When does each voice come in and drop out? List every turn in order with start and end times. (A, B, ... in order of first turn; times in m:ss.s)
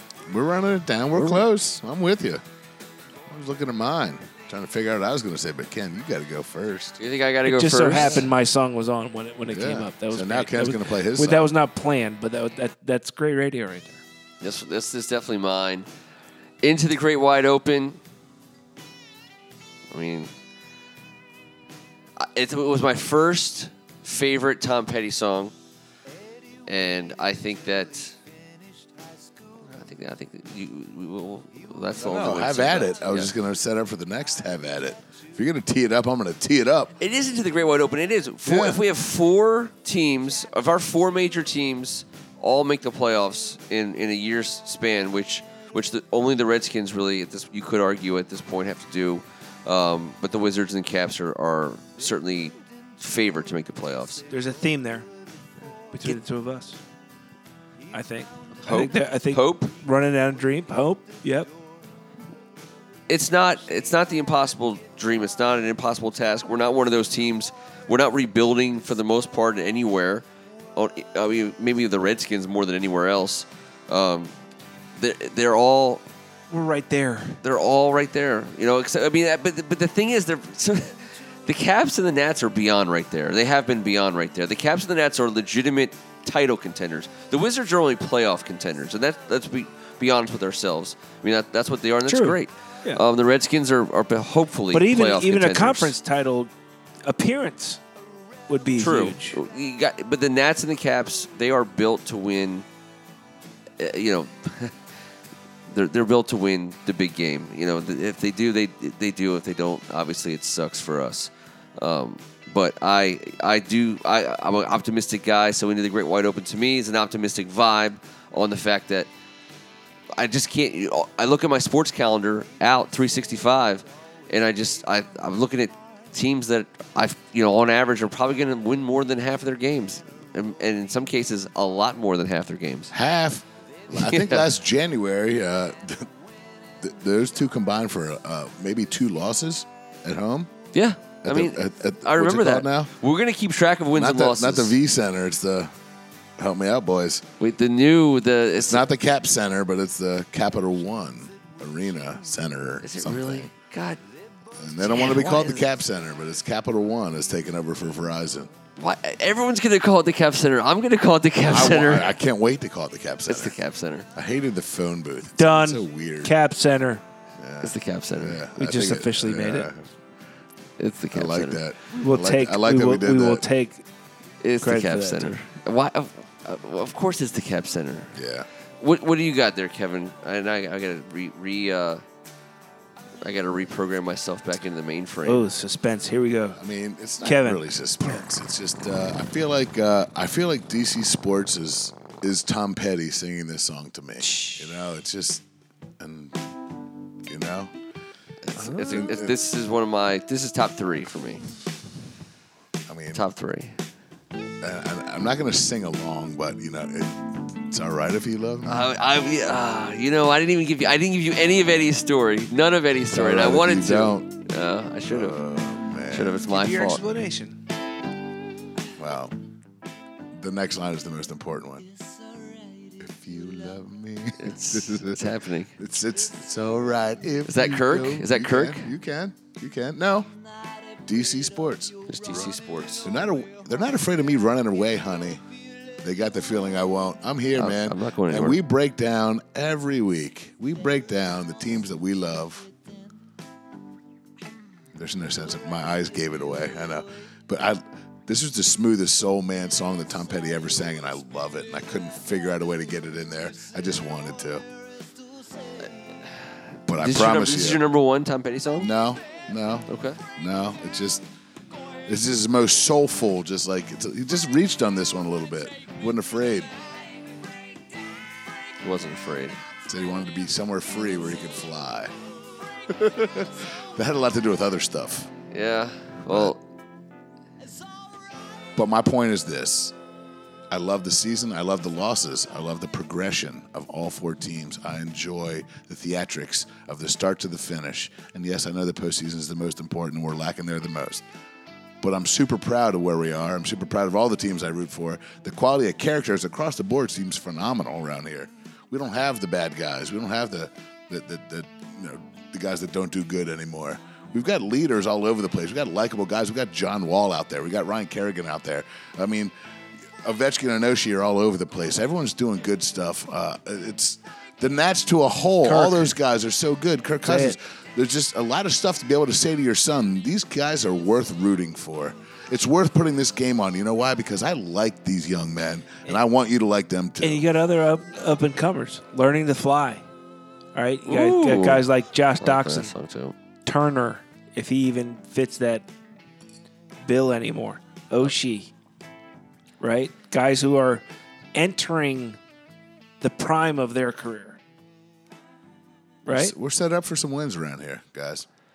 0:00.3-0:02.4 A
0:03.3-0:07.0 A
0:07.0-0:08.3 B
0:07.5-0:14.0 C
0:09.5-0:11.5 A
0:14.4-0:15.9 B
0:16.6-0:18.0 B
0:19.9-0:20.3 B
0:22.2-0:25.5 B
0:26.7-0:28.2 B
0:29.7-0:33.3 B
0:32.0-0:36.9 A
0:37.0-0:54.2 B
0:38.4-0:38.8 A
0:54.3-0:55.1 C
0:55.9-0:56.8 C
0:57.9-1:01.5 C
0:58.6-0:59.7 B
1:03.1-1:10.2 B
1:10.8-1:14.3 B
1:15.0-1:16.0 B
1:16.5-1:17.4 C
1:17.4-1:36.0 B
1:32.1-1:33.0 C
1:34.7-1:36.5 C
1:37.1-1:37.8 C
1:38.5-1:39.4 C
1:38.8-1:42.6 B
1:43.8-1:44.8 B
1:45.7-1:59.1 B
2:00.2-2:12.9 B
2:12.9-2:16.1 A
2:13.9-2:14.5 B
2:16.8-2:20.5 A
2:20.7-2:24.8 B
2:21.2-2:22.9 A
2:23.9-2:25.7 A
2:26.4-2:27.2 A
2:27.4-2:28.9 B
2:28.7-2:33.5 A
2:32.8-2:34.0 B
2:34.6-2:38.5 A
2:34.8-2:35.7 B
2:38.8-2:42.2 B
2:41.5-2:43.6 A
2:43.3-2:44.1 B
2:44.1-2:46.3 A
2:45.4-2:47.0 C
2:47.4-2:49.9 A
2:47.6-2:48.4 B
2:48.6-2:49.7 C
2:50.8-2:51.6 B
2:51.1-2:53.4 A
2:51.9-2:53.8 C
2:54.4-2:58.2 B
2:54.6-2:55.3 C
2:58.2-2:58.5 A
2:58.8-3:02.0 B
3:03.2-3:05.4 B
3:05.2-3:06.6 C
3:06.6-3:15.4 A
3:07.2-3:08.2 C
3:14.3-3:14.6 B
3:16.0-3:16.4 A
3:17.2-3:17.8 A
3:18.4-3:21.4 B
3:18.8-3:19.3 A
3:22.9-3:23.2 A
3:23.1-3:23.8 B
3:24.6-3:28.9 A
3:28.6-3:35.4 B
3:33.1-3:34.3 A
3:35.1-3:36.5 A
3:36.1-3:37.0 B
3:36.5-3:37.6 C
3:39.0-3:39.4 A
3:40.4-3:41.9 A
3:43.0-3:50.3 A
3:44.4-3:45.8 B
3:47.4-3:48.9 B
3:51.0-3:55.4 A
3:52.1-3:53.1 B
3:56.0-4:02.7 A
3:57.6-3:58.6 B
4:04.9-4:14.6 A
4:16.9-4:17.8 A
4:17.0-4:18.9 B
4:18.8-4:21.2 A
4:19.9-4:20.2 B
4:22.1-4:26.7 A
4:28.8-4:29.6 B
4:29.9-4:32.2 A
4:32.9-4:35.4 A
4:35.5-4:36.6 B
4:36.3-4:36.6 A
4:38.8-4:39.9 A
4:40.7-4:51.2 A
4:52.0-5:09.5 A
5:10.2-5:27.5 A
5:15.6-5:16.1 C
5:17.2-5:17.6 C
5:27.2-5:30.0 C
5:30.8-5:32.9 C
5:31.1-5:31.9 B
5:32.4-5:33.4 B
5:33.7-5:35.9 C
5:37.0-5:38.7 C
5:39.8-5:41.0 C
5:41.6-5:42.4 C
5:43.2-5:44.6 C
5:46.2-5:46.5 C
5:46.3-5:48.5 A